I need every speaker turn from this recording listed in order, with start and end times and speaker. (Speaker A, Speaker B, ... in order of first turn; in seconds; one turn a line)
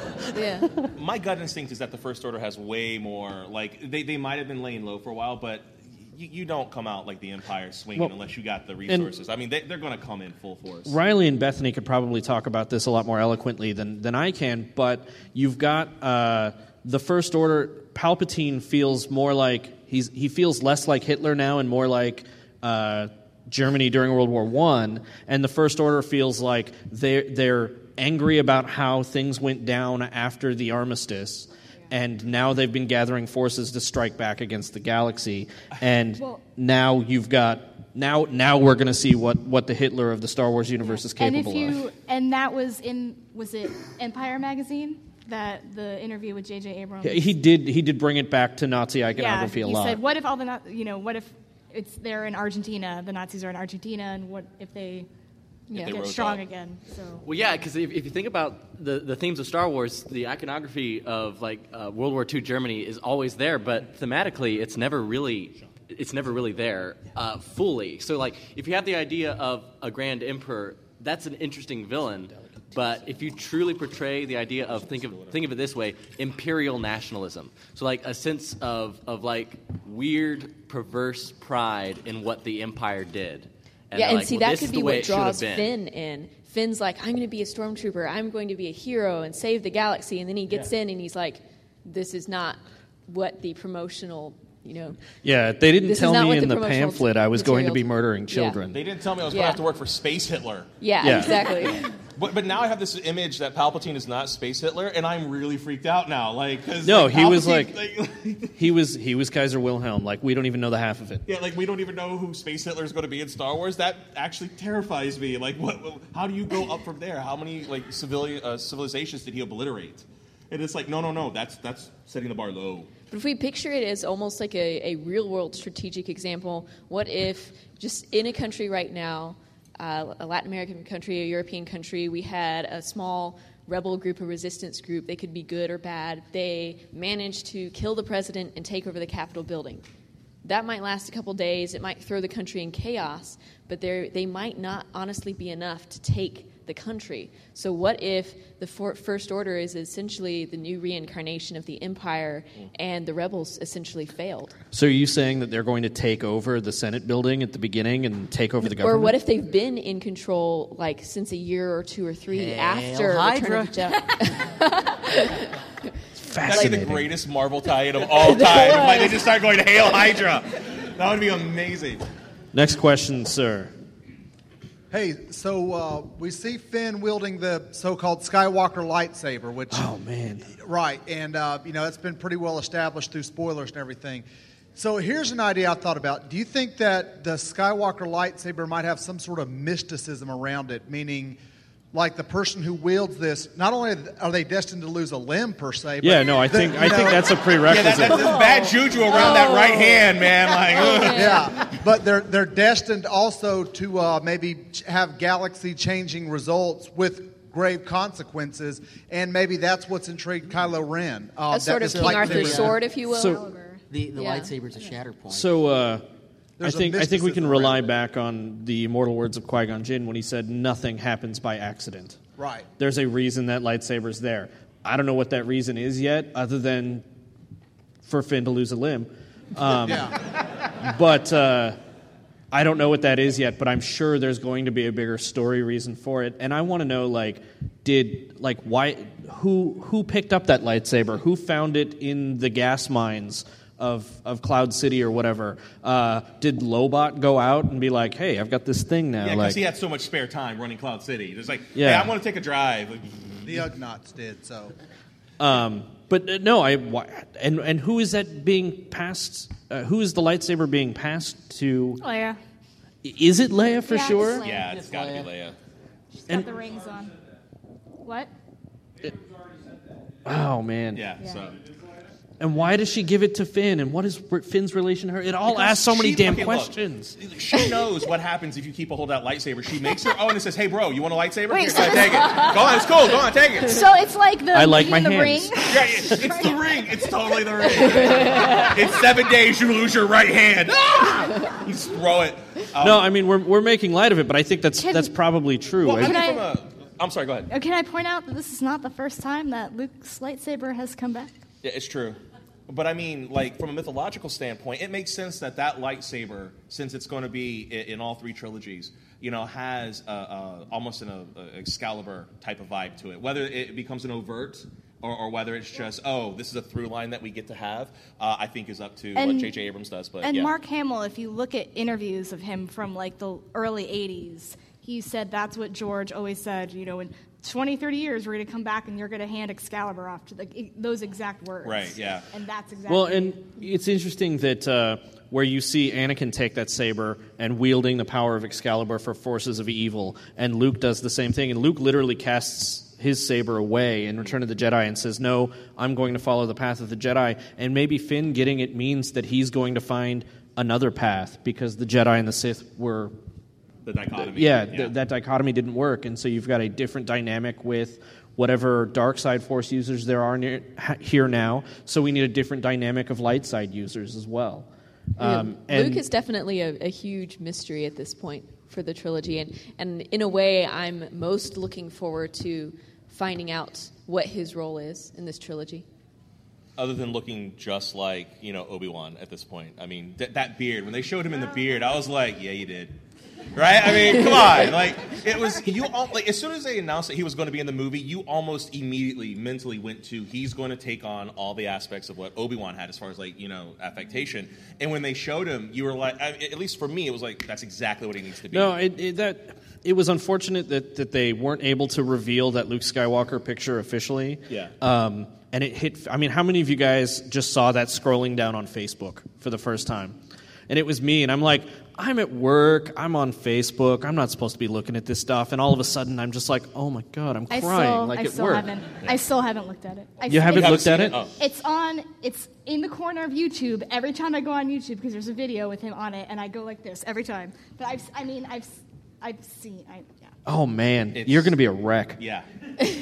Speaker A: 0.3-0.7
Speaker B: 0.9-10.9
Speaker C: 10.8-41.8
Speaker D: 41.2-47.2
Speaker C: 47.0-50.0
Speaker D: 49.2-55.1
Speaker A: 55.7-56.0
Speaker B: 55.8-56.4
Speaker D: 55.8-57.2
Speaker E: 57.2-85.7
Speaker B: 75.1-75.3
Speaker A: 83.9-95.0
Speaker C: 95.2-98.8
Speaker A: 95.8-98.6
Speaker B: 98.7-100.7
Speaker A: 99.3-99.6
Speaker A: 100.8-101.9
Speaker C: 101.0-101.3
Speaker B: 102.2-108.6
Speaker C: 106.8-107.8
Speaker C: 108.5-111.2
Speaker B: 111.2-122.9
Speaker A: 123.1-139.8
Speaker A: 140.4-154.5
Speaker C: 154.7-159.2
Speaker A: 158.6-165.5
Speaker F: 162.3-163.9
Speaker C: 166.2-167.1
Speaker B: 166.4-172.0
Speaker A: 166.5-166.8
Speaker A: 168.1-169.2
Speaker C: 172.5-173.7
Speaker G: 174.9-179.9
Speaker C: 179.7-180.5
Speaker G: 180.6-184.2
Speaker G: 184.8-191.4
Speaker G: 191.9-197.5
Speaker C: 196.0-198.3
Speaker B: 197.7-201.4
Speaker A: 199.1-200.0
Speaker A: 200.7-201.5
Speaker G: 201.1-212.8
Speaker A: 211.5-213.4
Speaker F: 211.8-212.8
Speaker D: 212.8-213.8
Speaker C: 213.1-213.4
Speaker F: 213.9-215.5
Speaker A: 214.2-214.5
Speaker C: 215.3-216.1
Speaker G: 216.6-217.8
Speaker C: 216.6-222.2
Speaker G: 222.4-222.7
Speaker C: 222.8-227.0
Speaker C: 228.0-230.1
Speaker G: 229.8-230.1
Speaker C: 230.8-231.8
Speaker C: 232.5-249.6
Speaker B: 249.2-253.5
Speaker C: 251.7-252.1
Speaker G: 253.4-254.7
Speaker C: 255.4-262.0
Speaker D: 262.0-262.4
Speaker C: 263.0-264.4
Speaker D: 263.9-264.7
Speaker B: 264.4-265.6
Speaker F: 264.4-265.3
Speaker D: 266.1-267.1
Speaker D: 268.0-268.3
Speaker C: 270.2-271.1
Speaker B: 270.9-271.6
Speaker C: 272.4-277.1
Speaker B: 275.5-283.8
Speaker D: 281.5-282.8
Speaker D: 283.6-286.6
Speaker C: 284.5-285.5
Speaker B: 285.6-293.0
Speaker C: 292.8-296.3
Speaker D: 294.8-295.1
Speaker B: 295.8-297.5
Speaker D: 295.9-296.4
Speaker D: 297.5-301.4
Speaker B: 301.6-320.5
Speaker D: 319.1-319.5
Speaker D: 320.2-333.4
Speaker B: 331.6-332.2
Speaker C: 332.9-353.1
Speaker B: 353.8-354.9
Speaker C: 354.2-366.0
Speaker A: 365.2-375.8
Speaker B: 376.8-382.9
Speaker B: 383.5-398.8
Speaker C: 398.5-410.2
Speaker C: 410.7-418.7
Speaker D: 417.5-430.3
Speaker C: 420.3-421.2
Speaker B: 420.5-421.3
Speaker C: 430.5-432.2
Speaker B: 431.1-431.5
Speaker B: 432.2-432.4